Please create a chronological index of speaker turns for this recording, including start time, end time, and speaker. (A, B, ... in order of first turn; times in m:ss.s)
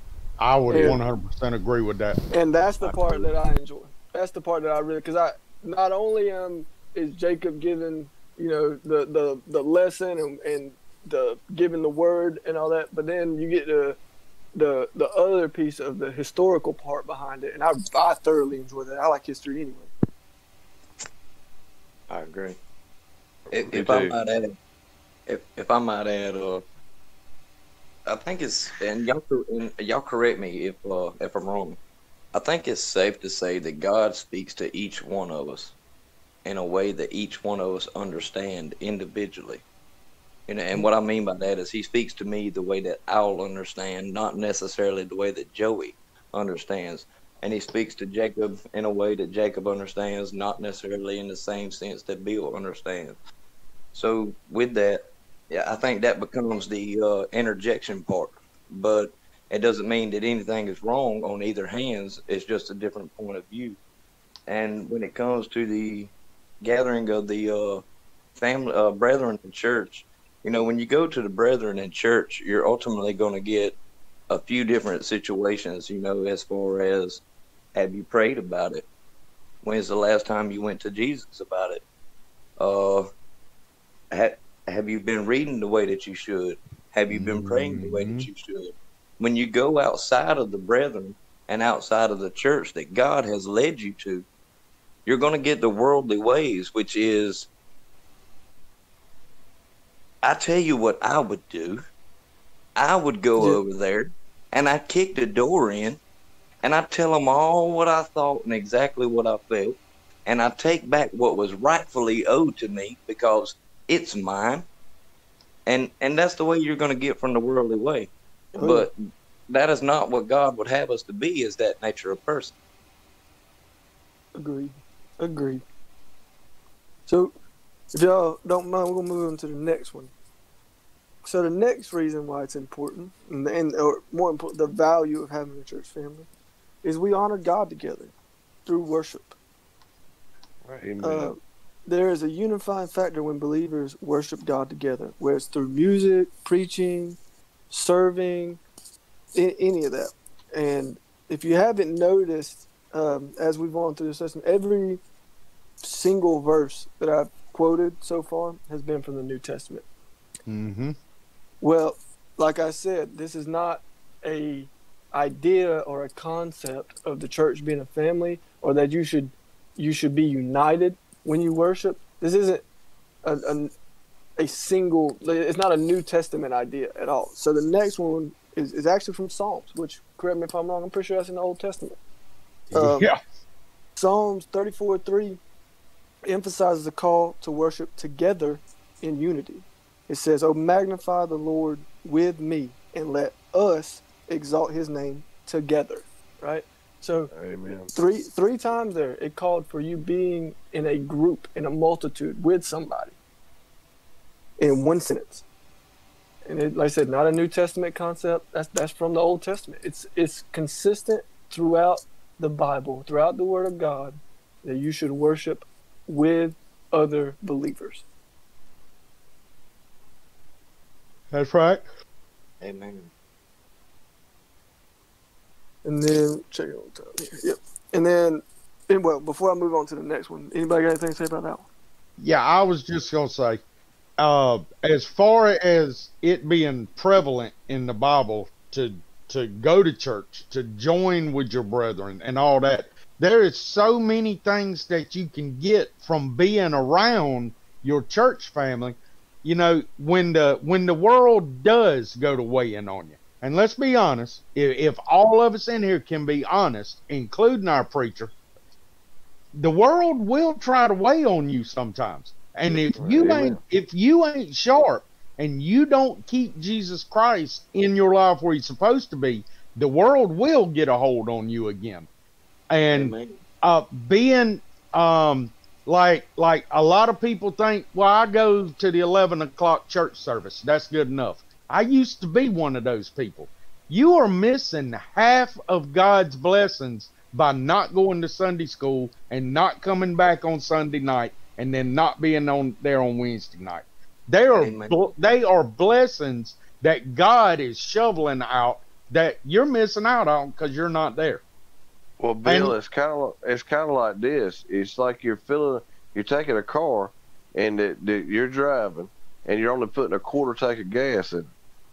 0:00.4-0:02.2 A
0:00.7-0:01.0 B
0:02.3-0:14.0 B
0:14.6-0:19.9 B
0:22.1-0:22.6 C
0:23.5-0:24.2 D
0:23.5-0:24.5 C
0:25.3-0:26.6 C
0:28.1-0:31.8 C
0:32.3-0:35.8 C
0:36.4-0:39.6 C
0:40.5-0:53.2 C
0:53.9-1:03.8 C
1:04.5-1:07.8 C
1:08.4-1:13.8 C
1:14.3-1:17.2 C
1:17.8-1:18.9 C
1:19.6-1:21.8 C
1:22.6-1:23.0 C
1:24.1-1:34.3 C
1:27.1-1:28.3 A
1:35.1-1:37.5 C
1:40.2-1:41.8 C
1:42.8-1:46.0 C
1:46.6-1:54.6 C
1:55.7-1:59.0 C
1:58.6-1:58.9 B
1:59.5-2:02.5 C
2:04.4-2:05.6 B
2:07.1-2:07.3 B
2:07.9-2:10.1 B
2:11.2-2:16.3 B
2:16.8-2:18.1 B
2:18.7-2:19.4 B
2:20.6-2:21.3 D
2:21.0-2:27.2 B
2:27.7-2:28.6 B
2:29.3-2:35.0 B
2:35.8-2:39.8 B
2:40.5-2:41.0 A
2:41.6-2:52.6 B
2:53.2-2:53.7 B
2:54.4-3:02.0 B
3:02.7-3:03.1 B
3:02.7-3:03.2 A
3:04.0-3:05.4 B
3:06.3-3:17.3 B
3:17.3-3:17.9 D
3:17.9-3:23.2 B
3:24.6-3:25.4 B
3:26.5-3:38.0 B
3:41.3-3:41.8 A
3:42.6-3:43.1 C
3:45.8-3:51.7 B
3:52.2-3:53.6 A
3:54.2-4:18.3 A
4:19.6-4:32.1 A
4:22.7-4:23.6 D
4:32.7-5:01.4 A
4:32.9-4:33.4 C
4:54.6-4:55.1 C
5:02.2-5:11.5 D
5:02.4-5:02.8 A